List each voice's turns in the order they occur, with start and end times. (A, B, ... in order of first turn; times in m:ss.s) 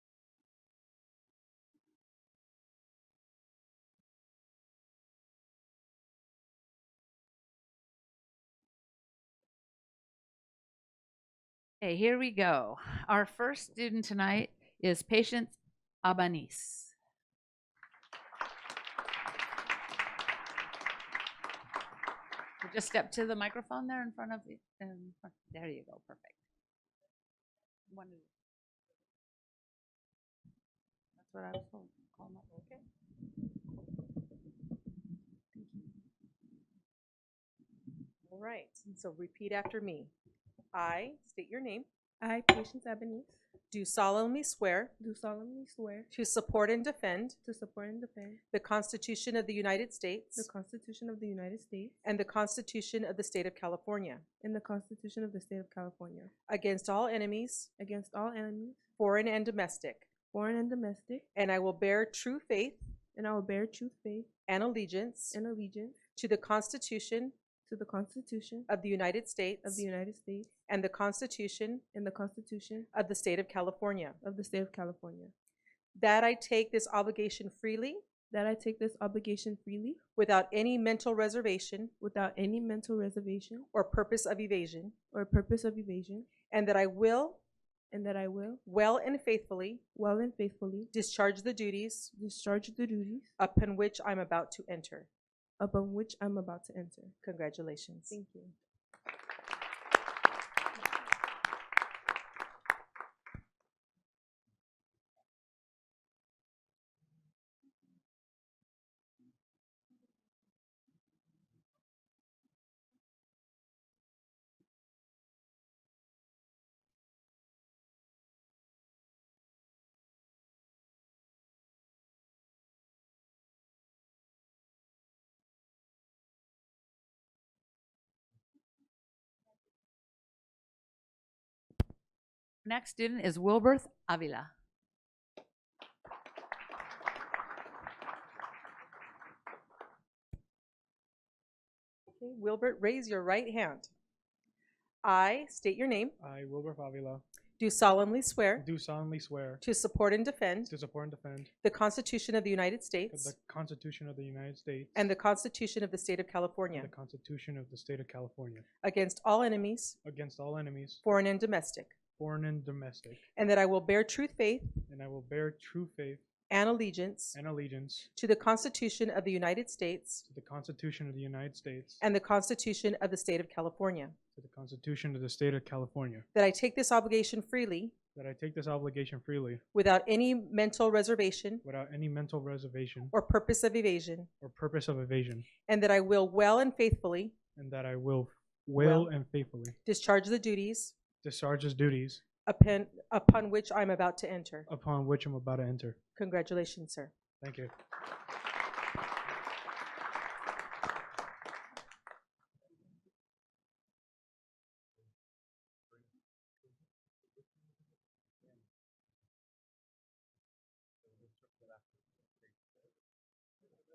0:11.8-0:16.9 A
0:22.6-0:26.4 A
0:27.9-0:28.3 A
0:31.2-0:32.6 A
0:32.5-0:32.8 B
0:38.3-0:40.1 B
0:40.7-0:41.9 B
0:42.2-0:43.4 C
0:43.7-0:45.0 B
0:45.0-0:46.1 C
0:46.1-0:47.4 B
0:47.4-0:48.4 C
0:48.5-0:50.5 B
0:50.4-0:52.0 C
0:52.0-0:54.2 B
0:54.4-0:56.3 C
0:56.5-0:57.7 B
0:57.8-0:58.8 C
0:59.0-1:00.1 B
1:00.3-1:01.3 C
1:01.4-1:02.8 B
1:03.2-1:04.3 C
1:04.5-1:05.4 B
1:05.3-1:06.0 C
1:06.2-1:07.4 B
1:07.7-1:08.7 C
1:08.7-1:09.8 B
1:09.6-1:10.5 C
1:10.7-1:11.8 B
1:11.9-1:12.9 C
1:12.9-1:14.2 B
1:14.2-1:15.3 C
1:16.0-1:18.0 B
1:18.3-1:20.0 C
1:20.2-1:21.9 B
1:22.0-1:23.7 C
1:23.7-1:25.0 B
1:25.1-1:26.3 C
1:26.5-1:27.4 B
1:27.9-1:28.6 C
1:28.6-1:29.8 B
1:30.0-1:30.9 C
1:30.9-1:32.1 B
1:32.1-1:33.3 C
1:33.4-1:35.1 B
1:35.6-1:37.2 C
1:37.2-1:38.2 B
1:38.1-1:38.6 C
2:12.6-2:14.5 A
2:22.2-2:23.9 B
2:25.0-2:26.2 B
2:26.2-2:27.2 D
2:27.6-2:28.7 B
2:28.6-2:29.6 D
2:29.6-2:30.7 B
2:30.7-2:31.5 D
2:31.6-2:33.3 B
2:33.1-2:35.1 D
2:35.0-2:36.9 B
2:36.7-2:38.7 D
2:38.8-2:40.0 B
2:40.0-2:41.0 D
2:41.0-2:42.0 B
2:42.2-2:43.2 D
2:43.4-2:44.8 B
2:44.9-2:46.2 D
2:46.5-2:47.4 B
2:47.3-2:48.1 D
2:48.2-2:50.3 B
2:50.3-2:52.0 D
2:52.0-2:54.2 B
2:54.4-2:56.3 D
2:56.3-2:57.9 B
2:58.2-2:59.6 D
2:59.7-3:01.6 B
3:01.6-3:03.1 D
3:03.1-3:04.3 B
3:04.4-3:05.5 D
3:05.7-3:07.3 B
3:07.6-3:09.8 D
3:08.8-3:09.1 B
3:09.8-3:11.0 B
3:11.2-3:12.2 D
3:12.5-3:14.7 B
3:14.7-3:16.0 D
3:16.2-3:17.1 B
3:17.4-3:17.7 D